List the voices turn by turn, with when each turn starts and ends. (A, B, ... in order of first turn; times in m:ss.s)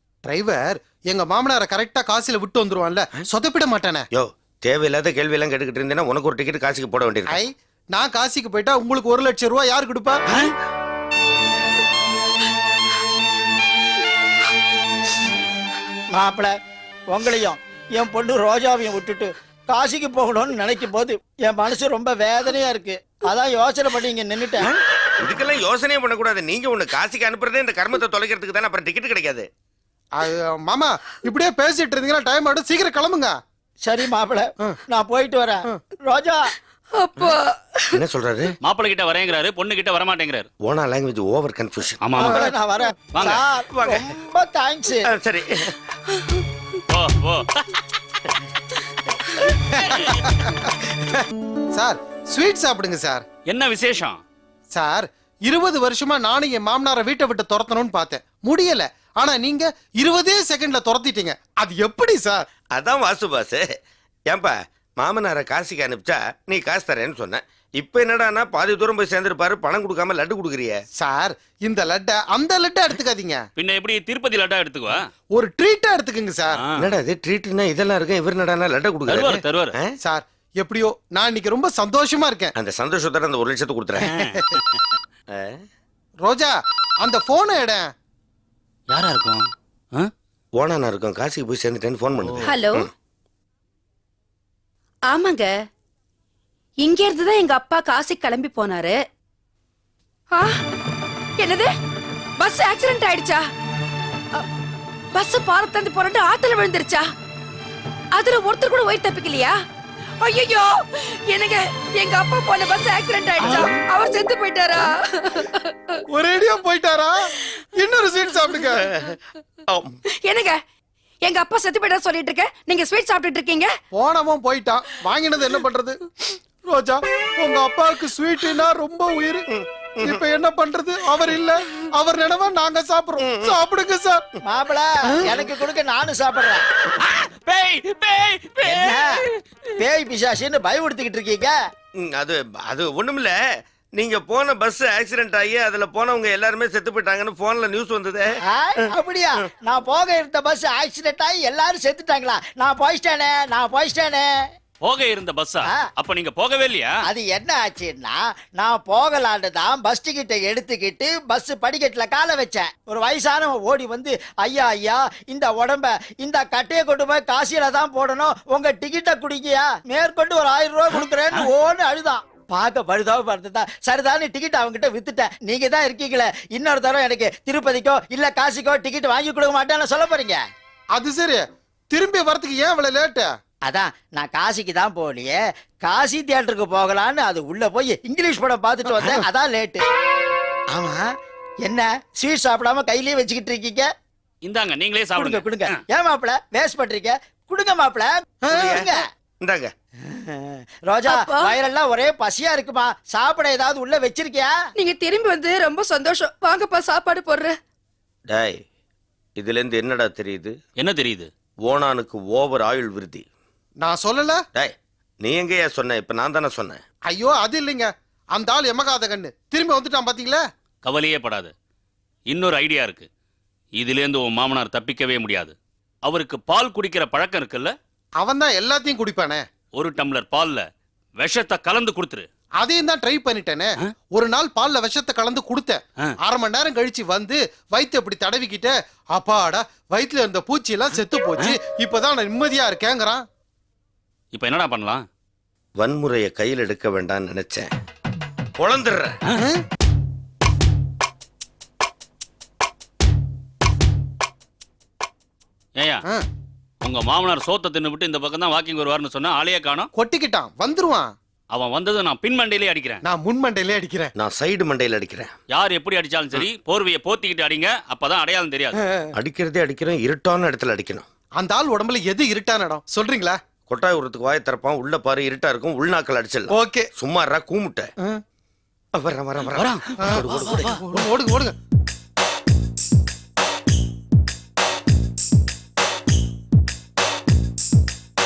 0:00.2-0:04.0 A
0:04.1-0:07.4 B
0:07.3-0:10.2 A
0:16.1-0:16.5 C
0:17.1-0:24.7 C
0:25.2-0:29.5 B
0:30.1-0:33.4 A
0:33.8-0:36.5 C
0:37.0-0:38.0 D
0:37.9-0:38.5 B
0:38.6-0:40.5 E
0:40.6-0:42.4 B
0:42.0-0:42.4 E
0:42.2-0:45.1 C
0:43.1-0:43.4 E
0:43.7-0:44.1 B
0:45.1-0:45.7 B
0:46.9-0:47.7 E
0:51.7-0:53.2 A
0:53.5-0:54.2 E
0:54.7-1:02.4 A
1:02.7-1:03.7 B
1:04.3-1:10.7 B
1:11.0-1:13.4 A
1:13.6-1:15.0 E
1:15.3-1:16.5 A
1:16.5-1:16.8 E
1:16.8-1:19.9 B
1:19.1-1:19.7 E
1:20.0-1:22.5 A
1:22.6-1:24.1 B
1:24.0-1:24.8 E
1:25.3-1:25.6 B
1:26.2-1:27.9 A
1:28.9-1:30.1 E
1:30.6-1:32.9 B
1:32.2-1:32.5 E
1:32.4-1:32.9 D
1:35.1-1:35.5 D
1:36.8-1:38.9 D
1:41.4-1:41.7 D
1:42.4-1:43.4 D
1:45.1-1:47.0 D
1:48.1-1:49.6 D
1:50.2-1:56.0 D
1:53.4-1:53.8 E
1:56.1-1:58.8 A
1:58.4-1:58.9 D
1:58.7-1:59.2 B
1:59.7-1:59.9 B
2:00.2-2:00.6 D
2:01.2-2:03.7 D
2:03.9-2:06.0 A
2:06.6-2:09.4 A
2:09.5-2:10.2 B
2:10.0-2:14.2 A
2:13.2-2:13.6 B
2:14.4-2:16.6 C
2:17.0-2:19.3 E
2:18.6-2:19.2 C
2:19.7-2:21.5 C
2:22.0-2:23.3 B
2:24.0-2:28.9 B
2:28.5-2:34.3 C
2:34.8-2:36.9 E
2:37.1-3:00.4 C
3:00.9-3:03.3 A
3:03.7-3:09.8 C
3:10.7-3:11.0 C
3:11.6-3:13.9 C
3:14.4-3:15.5 E
3:15.2-3:19.0 C
3:18.4-3:18.7 A
3:18.5-3:18.9 B
3:19.4-3:19.7 B
3:20.1-3:24.5 C
3:21.0-3:21.6 D
3:24.8-3:27.5 D
3:28.3-3:28.6 B
3:29.4-3:30.5 B
3:30.8-3:31.3 E
3:31.6-3:33.2 B
3:33.8-3:34.4 A
3:34.5-3:36.8 B
3:37.1-3:40.4 A
3:40.8-3:41.5 E
3:42.3-3:43.1 E
3:43.8-3:45.5 E
3:46.0-3:47.7 E
3:48.2-3:49.4 A
3:49.7-3:50.6 E
3:51.2-3:52.3 E
3:52.6-4:03.2 A
4:04.3-4:05.0 E
4:05.8-4:07.7 B
4:08.6-4:09.2 B
4:15.8-4:16.0 E
4:16.8-4:19.9 E
4:19.9-4:21.1 A
4:21.5-4:23.0 E
4:23.0-4:24.1 A
4:24.2-4:25.3 B
4:25.5-4:28.8 E
4:28.8-4:29.1 A
4:29.2-4:31.0 B
4:31.4-4:33.4 A
4:33.7-4:37.9 B
4:36.5-4:36.9 A
4:38.9-4:40.9 B
4:39.4-4:40.8 E
4:40.8-4:41.6 A